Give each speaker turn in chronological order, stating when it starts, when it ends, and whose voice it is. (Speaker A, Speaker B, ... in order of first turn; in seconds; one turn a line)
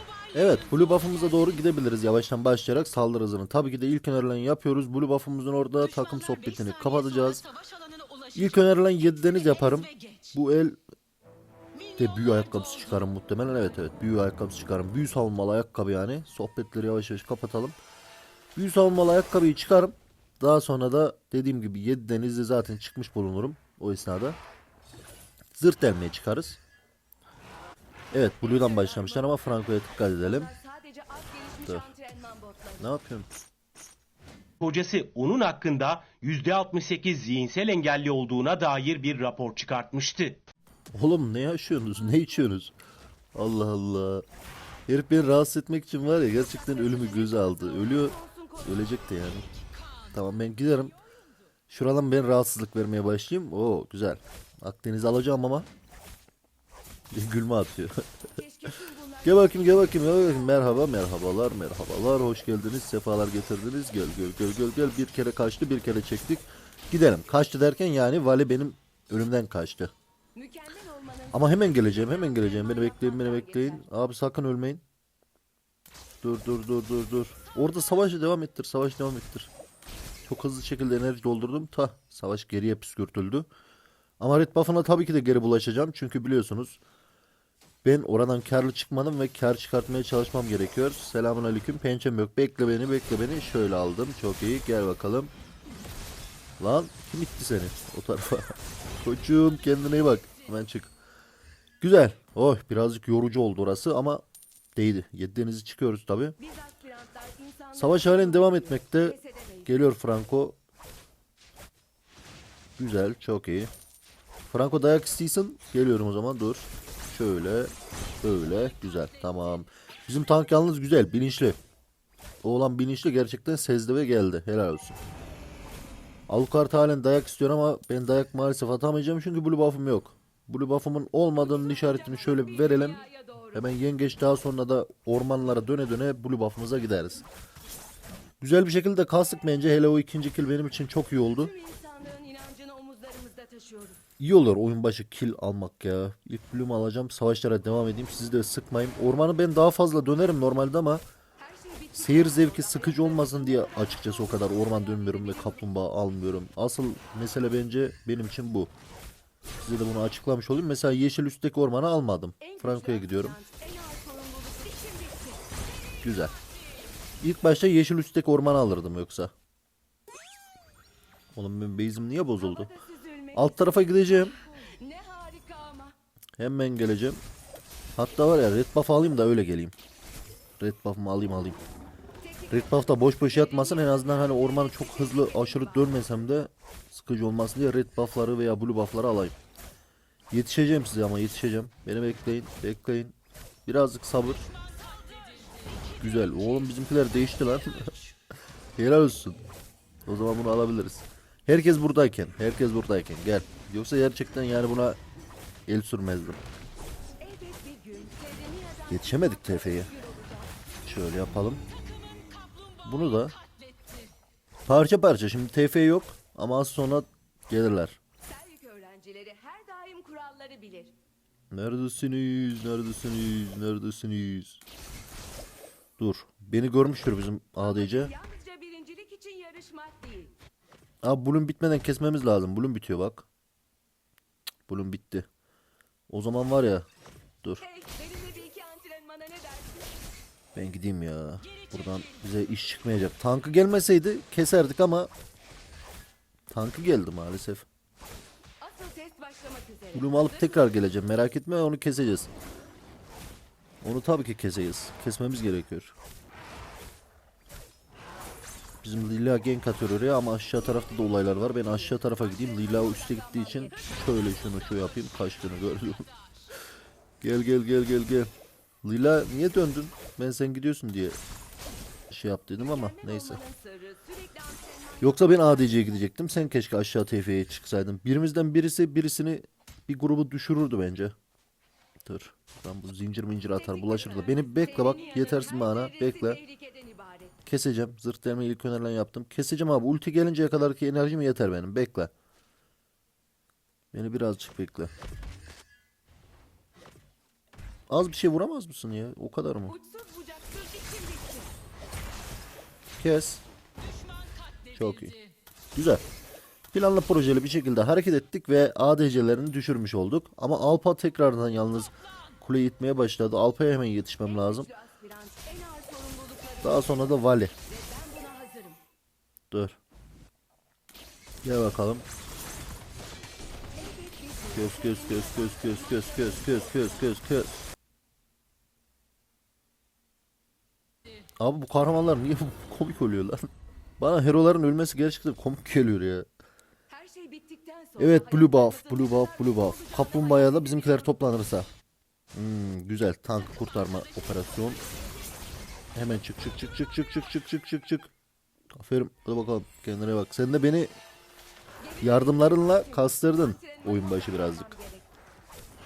Speaker A: 0.3-7.5
Speaker A: 8.3-10.8
Speaker A: 12.0-17.8
Speaker A: 18.5-24.4
Speaker A: 25.5-26.6
Speaker A: 28.1-30.5
Speaker B: 28.4-29.5
Speaker B: 30.1-32.9
Speaker A: 32.8-33.3
Speaker C: 34.6-40.5
Speaker A: 40.9-42.7
Speaker A: 43.3-44.2
Speaker A: 44.9-49.5
Speaker B: 46.3-49.0
Speaker A: 50.1-51.0
Speaker A: 51.7-55.7
Speaker A: 57.1-57.9
Speaker B: 58.4-60.9
Speaker A: 59.2-69.9
Speaker B: 70.3-73.8
Speaker A: 71.3-74.8
Speaker A: 76.2-79.5
Speaker A: 80.2-83.5
Speaker A: 84.2-86.8
Speaker A: 87.8-95.3
Speaker A: 96.6-100.9
Speaker A: 101.8-104.2
Speaker A: 104.7-106.3
Speaker B: 106.4-109.8
Speaker A: 107.7-109.1
Speaker A: 109.7-110.5
Speaker A: 112.8-113.7
Speaker A: 114.5-121.6
Speaker A: 122.4-125.0
Speaker A: 126.3-133.0
Speaker B: 131.3-133.6
Speaker A: 133.5-137.2
Speaker A: 138.4-141.5
Speaker B: 141.3-144.0
Speaker A: 144.2-151.1
Speaker B: 151.4-155.8
Speaker A: 151.9-158.7
Speaker A: 159.6-163.4
Speaker B: 162.4-165.4
Speaker A: 166.0-166.3
Speaker A: 167.2-169.3
Speaker A: 171.3-172.7
Speaker B: 172.4-175.9
Speaker A: 173.3-174.3
Speaker A: 176.4-177.2
Speaker A: 177.9-179.7
Speaker A: 180.6-181.6
Speaker B: 182.2-186.2
Speaker A: 182.5-189.4
Speaker A: 190.3-193.1
Speaker A: 193.7-194.5
Speaker A: 196.0-197.9
Speaker A: 198.8-199.4
Speaker A: 200.1-205.0
Speaker A: 205.7-206.4
Speaker B: 207.2-210.6
Speaker A: 208.9-209.9
Speaker A: 210.8-211.6
Speaker A: 212.8-213.4
Speaker A: 214.7-218.0
Speaker B: 218.2-220.9
Speaker A: 221.5-224.6
Speaker A: 226.0-228.1
Speaker B: 227.6-230.3
Speaker A: 231.0-233.3
Speaker A: 234.7-235.2
Speaker A: 236.1-236.8
Speaker B: 237.6-239.9
Speaker A: 240.5-245.1
Speaker A: 246.5-247.7
Speaker B: 248.6-250.7
Speaker A: 249.9-252.3
Speaker A: 253.8-255.9
Speaker A: 258.8-266.1
Speaker B: 260.8-264.3
Speaker A: 267.2-268.3
Speaker A: 268.8-271.2
Speaker A: 272.1-273.4
Speaker B: 272.6-276.0
Speaker A: 275.0-281.1
Speaker A: 282.0-286.4
Speaker B: 283.5-287.4
Speaker A: 287.4-292.1
Speaker A: 293.9-294.9
Speaker A: 297.9-299.7
Speaker B: 299.7-301.5
Speaker A: 302.9-303.4
Speaker A: 304.7-305.2
Speaker A: 305.7-306.0
Speaker A: 306.7-314.7
Speaker B: 314.2-318.8
Speaker A: 316.6-317.5
Speaker A: 319.5-319.8
Speaker A: 321.4-322.1
Speaker B: 323.7-327.1
Speaker A: 324.5-327.6
Speaker A: 331.4-333.5
Speaker A: 334.0-336.2
Speaker B: 336.9-341.3
Speaker A: 338.0-341.7
Speaker A: 342.3-344.8
Speaker A: 345.9-348.1
Speaker A: 348.7-350.9
Speaker B: 351.8-355.1
Speaker A: 352.0-354.7